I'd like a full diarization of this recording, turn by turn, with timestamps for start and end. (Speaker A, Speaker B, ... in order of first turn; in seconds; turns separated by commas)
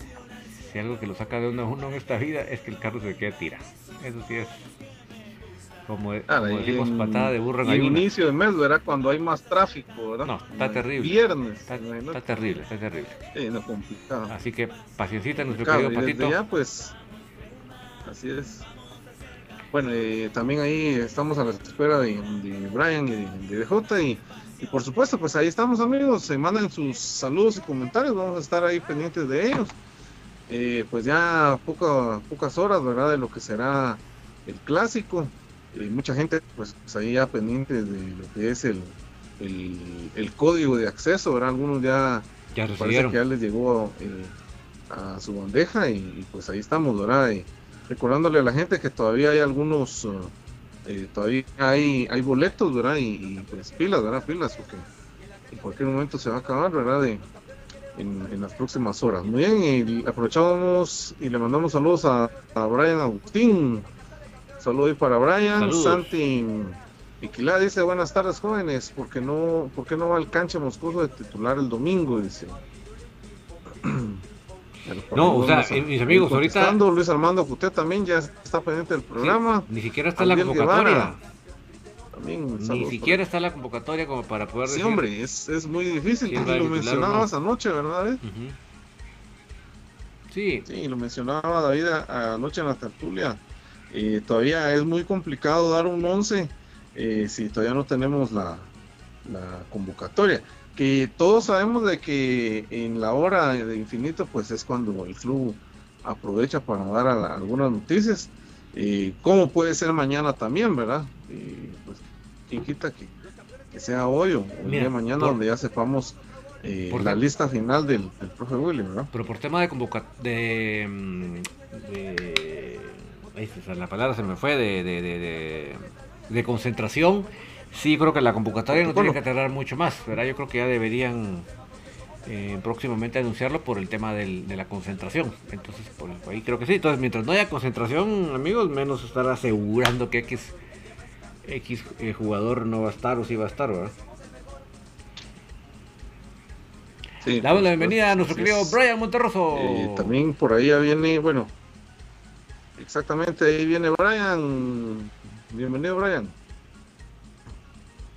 Speaker A: 0.6-4.7, Speaker A: 5.9-8.1, Speaker B: 6.3-12.2, Speaker A: 10.2-13.2, Speaker B: 13.3-14.3, Speaker A: 14.3-16.4, Speaker B: 15.4-16.9, Speaker B: 18.1-18.7, Speaker B: 19.7-29.7, Speaker B: 30.5-44.3, Speaker A: 42.5-43.2, Speaker B: 44.9-50.3, Speaker B: 50.8-54.8, Speaker B: 55.5-57.2, Speaker B: 58.0-63.9, Speaker B: 64.6-72.6, Speaker A: 65.6-66.1, Speaker B: 73.8-74.2, Speaker B: 74.8-81.2, Speaker A: 75.1-76.8, Speaker A: 79.2-81.2, Speaker B: 82.2-83.2, Speaker A: 82.6-85.0, Speaker B: 84.6-88.2, Speaker A: 86.3-87.3, Speaker A: 88.2-88.5, Speaker A: 90.3-90.7, Speaker B: 90.7-93.4, Speaker B: 93.9-98.7, Speaker B: 99.2-113.1, Speaker B: 113.7-119.1, Speaker A: 114.6-115.4, Speaker A: 116.9-117.2, Speaker A: 119.1-131.4, Speaker B: 128.7-129.2, Speaker A: 132.2-140.6, Speaker A: 141.4-143.9, Speaker B: 147.2-148.8, Speaker A: 147.3-150.2, Speaker B: 149.5-151.5, Speaker B: 152.8-156.3